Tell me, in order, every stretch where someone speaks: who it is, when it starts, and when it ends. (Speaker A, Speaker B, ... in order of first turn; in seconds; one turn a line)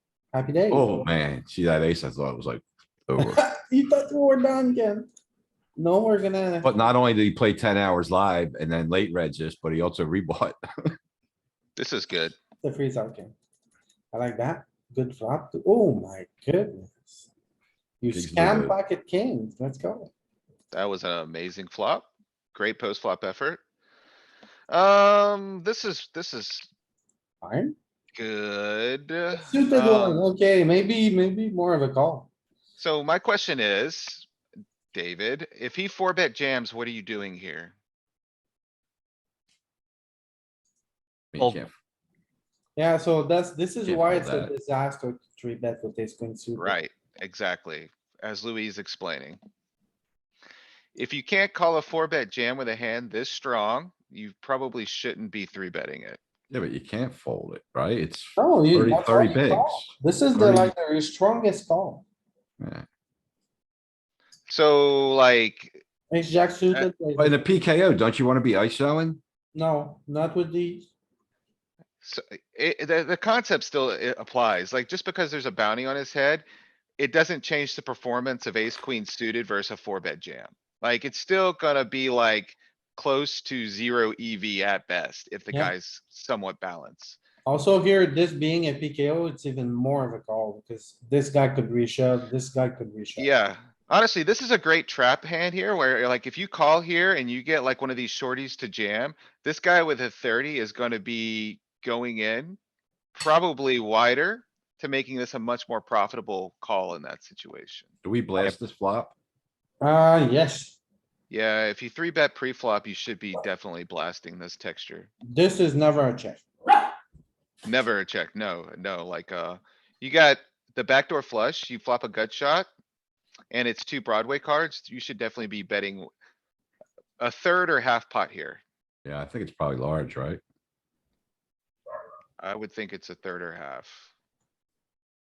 Speaker A: 0.3-1.1
Speaker B: 0.7-3.4
Speaker A: 3.2-5.1
Speaker A: 5.8-6.8
Speaker B: 6.6-10.9
Speaker C: 11.8-12.4
Speaker A: 12.6-13.3
Speaker A: 14.1-17.3
Speaker A: 18.0-20.1
Speaker B: 18.1-18.8
Speaker C: 20.7-23.6
Speaker C: 24.7-26.7
Speaker A: 27.4-27.8
Speaker C: 28.1-30.3
Speaker A: 29.3-32.3
Speaker C: 32.8-34.3
Speaker C: 34.9-37.8
Speaker B: 41.3-41.7
Speaker A: 42.8-46.8
Speaker B: 43.9-44.5
Speaker C: 46.6-49.4
Speaker C: 51.0-56.2
Speaker B: 56.5-60.7
Speaker A: 58.4-62.0
Speaker B: 62.6-62.9
Speaker C: 64.5-65.8
Speaker A: 66.1-67.4
Speaker B: 67.2-69.2
Speaker A: 69.5-70.9
Speaker C: 72.0-76.5
Speaker C: 77.0-87.2
Speaker A: 87.5-93.3
Speaker C: 93.2-102.6
Speaker C: 103.2-107.9
Speaker B: 108.0-109.1
Speaker A: 109.8-110.8
Speaker C: 111.3-115.1
Speaker A: 115.3-116.5
Speaker C: 117.7-122.7
Speaker C: 123.5-126.1
Speaker C: 127.2-128.6
Speaker B: 129.1-130.4
Speaker C: 132.4-134.1